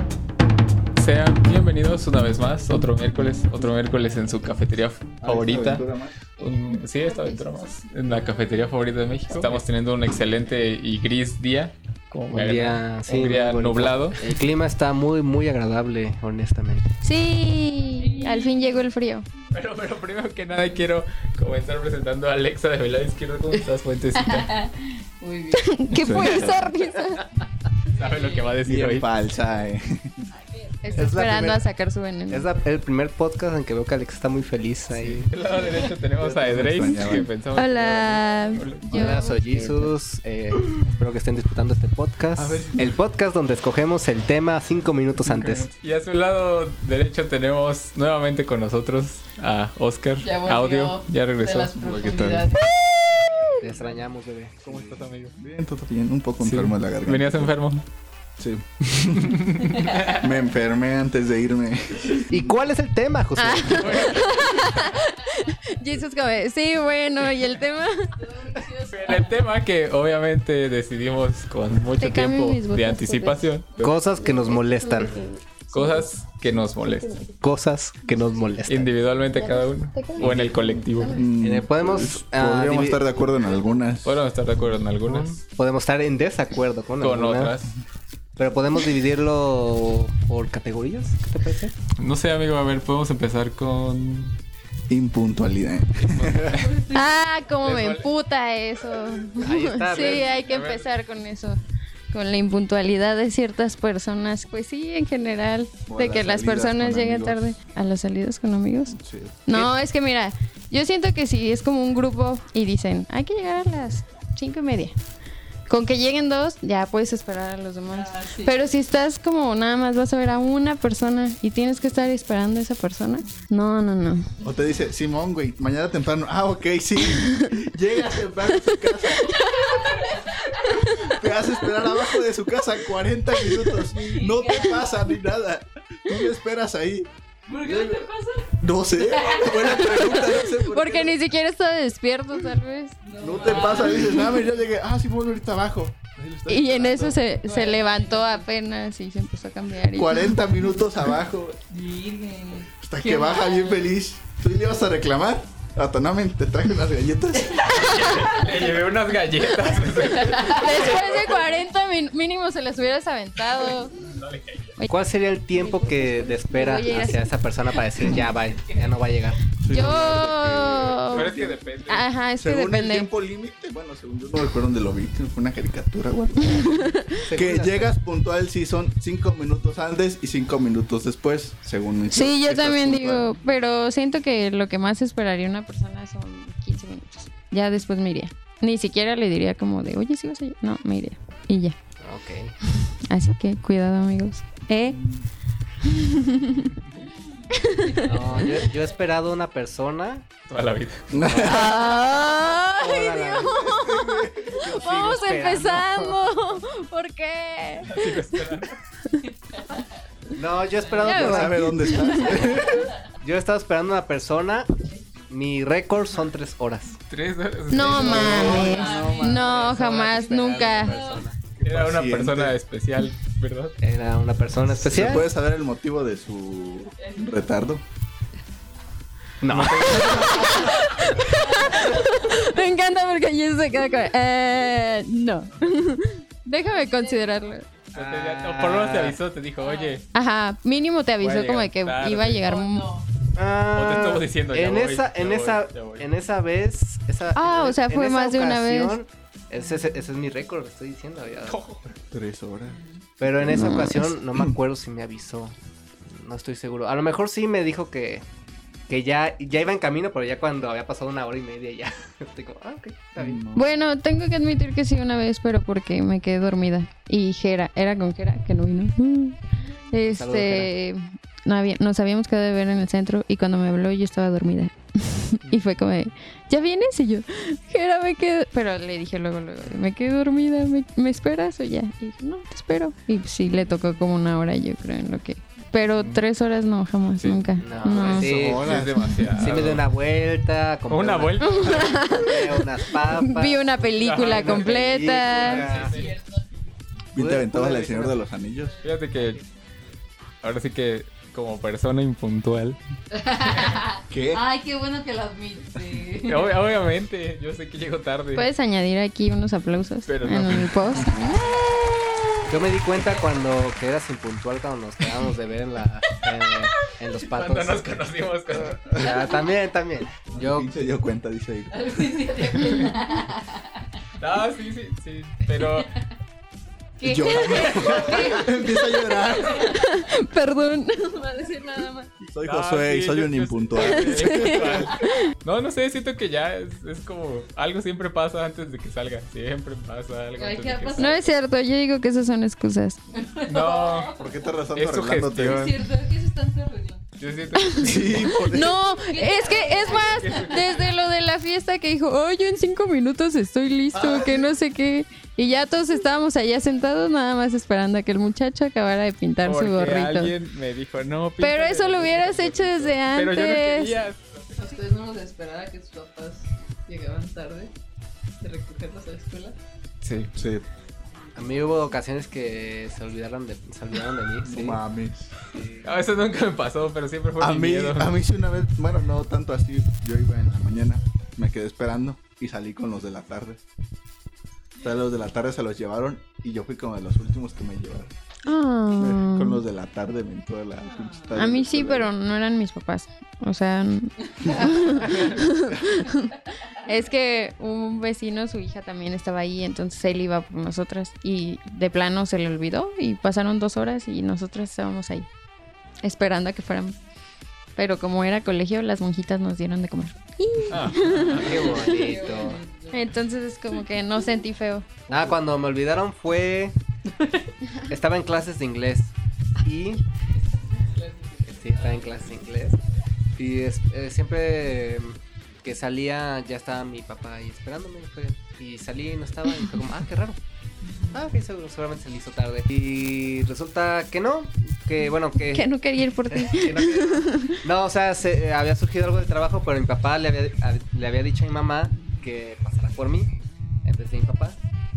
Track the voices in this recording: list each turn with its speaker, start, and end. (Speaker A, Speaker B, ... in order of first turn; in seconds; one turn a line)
Speaker A: 1.0-14.2
Speaker B: 5.2-6.3
Speaker C: 12.3-16.8
Speaker D: 17.0-19.3
Speaker E: 18.0-18.8
Speaker A: 19.5-24.6
Speaker E: 24.2-25.8
Speaker D: 25.6-27.2
Speaker A: 25.9-26.7
Speaker B: 26.0-26.7
Speaker A: 27.9-29.2
Speaker E: 27.9-28.6
Speaker B: 28.7-30.1
Speaker E: 30.6-31.0
Speaker D: 30.8-32.5
Speaker C: 31.0-31.6
Speaker C: 32.3-35.3
Speaker A: 34.9-39.2
Speaker B: 36.2-37.3
Speaker D: 37.0-40.0
Speaker C: 38.9-45.7
Speaker B: 42.4-43.0
Speaker A: 45.2-52.5
Speaker E: 50.2-52.7
Speaker D: 53.4-53.6
Speaker C: 53.6-54.9
Speaker B: 54.7-57.5
Speaker A: 54.7-55.3
Speaker A: 56.4-57.9
Speaker B: 58.4-59.4
Speaker A: 59.2-60.3
Speaker B: 60.1-62.4
Speaker C: 62.3-64.1
Speaker D: 63.4-68.2
Speaker A: 63.7-64.5
Speaker E: 64.3-65.0
Speaker E: 68.2-69.4
Speaker A: 68.8-74.1
Speaker D: 72.0-76.1
Speaker C: 73.8-75.2
Speaker A: 75.7-77.2
Speaker D: 76.7-77.3
Speaker C: 77.4-78.9
Speaker A: 78.7-81.3
Speaker D: 79.3-80.3
Speaker C: 80.2-80.6
Speaker D: 80.9-81.2
Speaker B: 81.1-84.2
Speaker C: 81.4-83.1
Speaker A: 84.0-85.4
Speaker C: 85.0-87.5
Speaker A: 87.0-87.8
Speaker C: 88.4-91.8
Speaker A: 92.0-94.4
Speaker B: 94.9-96.7
Speaker A: 96.1-96.9
Speaker E: 96.6-97.0
Speaker D: 96.9-101.6
Speaker A: 97.6-98.1
Speaker C: 99.4-100.3
Speaker A: 99.9-100.9
Speaker D: 102.1-109.0
Speaker B: 105.9-107.4
Speaker B: 108.9-109.4
Speaker D: 109.5-115.0
Speaker D: 115.7-124.3
Speaker E: 117.9-118.5
Speaker E: 124.4-124.8
Speaker B: 124.4-129.3
Speaker D: 127.0-127.7
Speaker D: 128.5-132.2
Speaker E: 129.6-130.5
Speaker B: 130.6-138.1
Speaker D: 133.3-133.8
Speaker E: 134.0-134.9
Speaker E: 137.5-140.0
Speaker B: 138.6-141.2
Speaker D: 139.7-143.0
Speaker E: 143.0-144.4
Speaker B: 143.2-147.2
Speaker D: 143.5-144.3
Speaker D: 146.5-150.5
Speaker E: 147.4-148.5
Speaker B: 149.9-151.6
Speaker E: 151.7-153.9
Speaker B: 152.8-157.7
Speaker E: 157.6-158.6
Speaker A: 157.6-161.4
Speaker E: 160.2-161.0
Speaker D: 160.5-164.0
Speaker A: 163.9-164.8
Speaker C: 164.9-169.4
Speaker D: 165.5-167.8
Speaker E: 168.6-169.2
Speaker B: 169.6-171.6
Speaker D: 169.7-173.1
Speaker A: 171.1-172.1
Speaker B: 172.4-183.3
Speaker D: 176.5-177.2
Speaker C: 177.2-177.9
Speaker D: 182.1-191.8
Speaker C: 192.0-192.6
Speaker D: 192.8-195.0
Speaker B: 194.9-195.2
Speaker D: 195.8-196.7
Speaker A: 196.5-197.0
Speaker D: 197.5-198.4
Speaker C: 198.0-200.3
Speaker A: 200.5-201.3
Speaker B: 201.1-201.7
Speaker C: 201.2-202.0
Speaker D: 201.4-208.5
Speaker C: 202.8-203.6
Speaker B: 203.4-204.7
Speaker C: 204.5-206.2
Speaker A: 207.8-208.8
Speaker C: 210.4-211.6
Speaker E: 210.8-211.2
Speaker D: 211.0-212.6
Speaker B: 211.1-212.9
Speaker C: 212.2-212.5
Speaker C: 213.2-214.8
Speaker C: 215.3-217.0
Speaker A: 217.1-218.8
Speaker D: 217.7-221.0
Speaker B: 217.7-219.5
Speaker E: 218.0-221.2
Speaker C: 219.5-221.4
Speaker B: 221.6-222.6
Speaker A: 221.6-223.8
Speaker C: 223.8-225.3
Speaker B: 224.7-227.8
Speaker E: 227.0-227.5
Speaker C: 229.4-230.3
Speaker A: 229.5-230.7
Speaker D: 229.9-237.7
Speaker E: 230.3-232.5
Speaker E: 236.6-237.4
Speaker C: 237.9-239.2
Speaker A: 237.9-240.0
Speaker E: 239.6-240.0
Speaker D: 240.1-242.9
Speaker A: 241.2-242.5
Speaker E: 242.4-243.1
Speaker C: 243.3-251.6
Speaker A: 243.7-246.2
Speaker D: 247.3-249.0
Speaker A: 251.4-252.0
Speaker B: 252.1-252.8
Speaker E: 252.7-253.0
Speaker C: 253.2-258.2
Speaker B: 253.3-253.8
Speaker D: 253.5-254.1
Speaker C: 258.9-263.4
Speaker B: 263.2-263.7
Speaker D: 263.5-288.3
Speaker C: 270.1-270.7
Speaker A: 286.0-286.2
Speaker A: 287.2-289.9
Speaker C: 287.6-288.7
Speaker B: 288.2-289.0
Speaker D: 289.0-289.4
Speaker C: 289.4-296.1
Speaker A: 290.9-292.1
Speaker D: 291.4-295.8
Speaker A: 294.0-296.2
Speaker E: 295.6-296.6
Speaker B: 297.1-298.9
Speaker C: 297.2-298.2
Speaker A: 298.8-299.4
Speaker A: 300.4-302.8
Speaker E: 303.2-306.7
Speaker B: 304.1-304.5
Speaker A: 306.2-308.5
Speaker D: 308.4-312.2
Speaker A: 310.1-311.0
Speaker E: 311.5-312.1
Speaker C: 312.5-318.1
Speaker A: 317.1-319.1
Speaker C: 319.0-320.7
Speaker B: 320.3-322.1
Speaker E: 321.7-323.8
Speaker A: 322.6-323.0
Speaker A: 324.2-325.9
Speaker E: 325.5-325.9
Speaker E: 327.0-328.5
Speaker D: 327.0-332.1
Speaker B: 327.0-329.7
Speaker B: 332.2-334.9
Speaker A: 332.4-341.3
Speaker D: 333.8-335.2
Speaker E: 340.4-341.2
Speaker D: 340.9-343.0
Speaker E: 343.1-344.5
Speaker A: 343.4-344.2
Speaker B: 344.1-345.7
Speaker A: 344.7-345.8
Speaker E: 345.5-347.0
Speaker A: 347.2-348.4
Speaker D: 347.6-360.4
Speaker B: 347.8-348.8
Speaker E: 348.9-350.8
Speaker A: 349.7-350.9
Speaker B: 353.9-354.5
Speaker A: 359.4-364.7
Speaker D: 361.4-364.0
Speaker E: 364.6-367.7
Speaker E: 368.4-369.6
Speaker A: 370.0-370.3
Speaker B: 370.4-370.6
Speaker C: 371.4-374.8
Speaker E: 371.5-371.8
Speaker B: 374.4-375.3
Speaker C: 375.5-376.0
Speaker A: 375.8-378.1
Speaker B: 377.4-383.6
Speaker B: 384.8-388.1
Speaker D: 388.4-389.6
Speaker B: 389.0-392.1
Speaker E: 390.9-391.3
Speaker D: 391.4-405.3
Speaker D: 406.0-407.0
Speaker D: 407.8-412.2
Speaker A: 410.7-411.7
Speaker C: 411.3-412.6
Speaker E: 411.6-413.0
Speaker D: 412.9-414.9
Speaker C: 415.1-416.8
Speaker C: 417.9-420.1
Speaker E: 420.7-422.4
Speaker C: 421.4-422.8
Speaker C: 423.4-430.4
Speaker E: 430.9-431.2
Speaker C: 431.1-435.7
Speaker D: 435.5-437.6
Speaker C: 436.3-443.3
Speaker C: 443.8-444.6